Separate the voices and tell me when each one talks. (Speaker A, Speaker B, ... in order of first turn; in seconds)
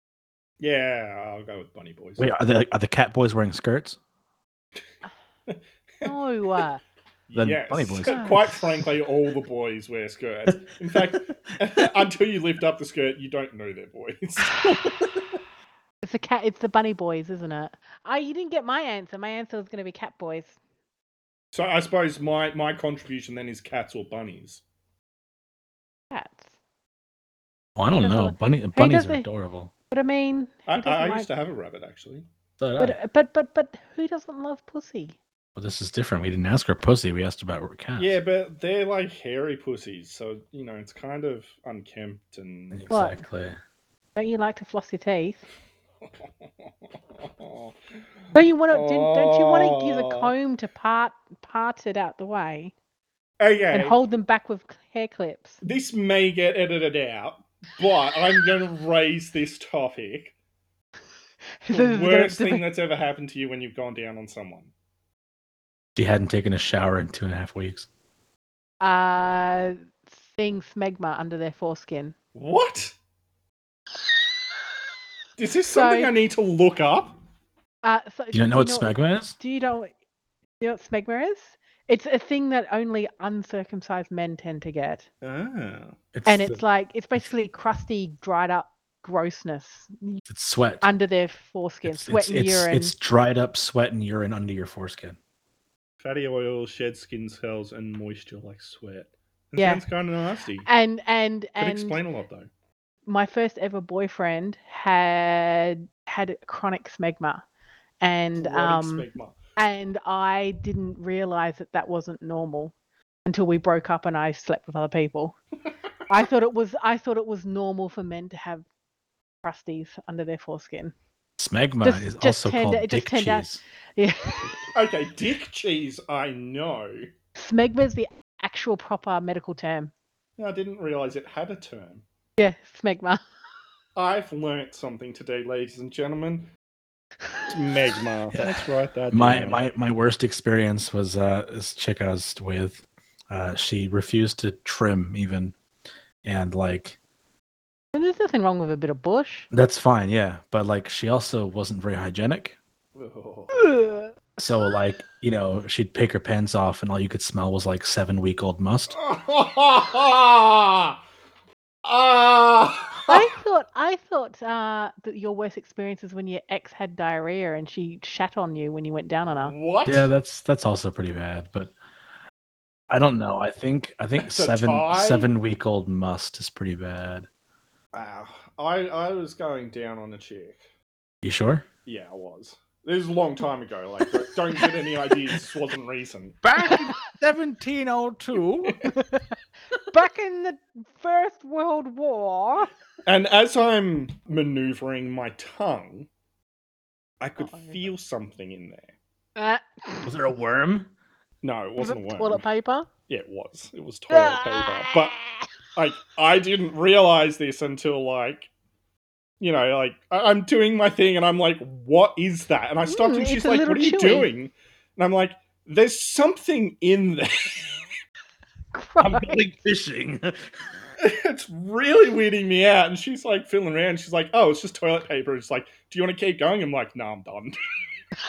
Speaker A: 0.6-2.3, 5.5-6.1, 7.3-14.6, 21.5-24.6, 30.7-32.3, 38.0-42.9, 46.5-47.7, 48.7-50.3, 53.4-54.0, 55.6-60.4, 61.7-64.7, 72.3-73.0, 75.4-77.2, 85.2-86.0, 96.0-100.7, 101.6-102.5, 108.4-109.4, 124.7-127.1, 130.4-132.0, 134.0-136.5, 137.5-139.7, 152.9-153.7, 158.9-161.0, 161.8-163.2, 169.4-170.1, 174.2-175.3, 177.9-180.6, 181.9-186.4, 193.1-196.1, 197.2-198.9, 201.4-202.4, 203.1-205.2, 205.8-208.5, 209.4-217.8, 221.0-227.6
Speaker B: 2.2-4.0, 7.3-8.6, 10.5-11.2, 14.7-15.1, 27.8-29.7, 32.6-33.0, 35.6-38.2, 42.7-43.6, 66.0-67.9, 78.3-79.4, 86.1-86.6, 90.3-90.9, 91.9-95.2, 121.4-123.6, 138.3-145.6, 146.2-147.0, 149.5-152.6, 154.4-159.0, 169.9-171.7, 172.9-177.3, 181.2-181.7, 186.4-188.8, 200.0-200.9, 219.0-220.5
Speaker C: 6.0-6.8, 8.1-8.4, 16.0-20.6, 26.1-26.5, 28.0-29.3, 29.9-31.3, 32.8-35.2, 42.9-43.2, 44.2-45.4, 48.3-52.7, 53.7-55.6, 61.6-62.6, 68.8-69.8, 70.3-72.2, 75.7-76.1, 77.8-79.9, 80.6-85.1, 86.3-90.2, 90.8-92.9, 99.6-99.8, 100.7-102.0, 103.1-107.4, 108.0-112.7, 113.3-115.4, 116.1-118.7, 119.4-120.9, 121.8-124.6, 127.4-129.9, 132.4-133.2, 147.9-149.5, 153.5-154.1, 163.1-169.5, 186.6-186.9, 188.9-189.3, 189.9-192.7, 197.4-197.8, 199.4-200.1, 201.8-202.9, 204.1-205.5, 212.9-214.3, 218.7-219.4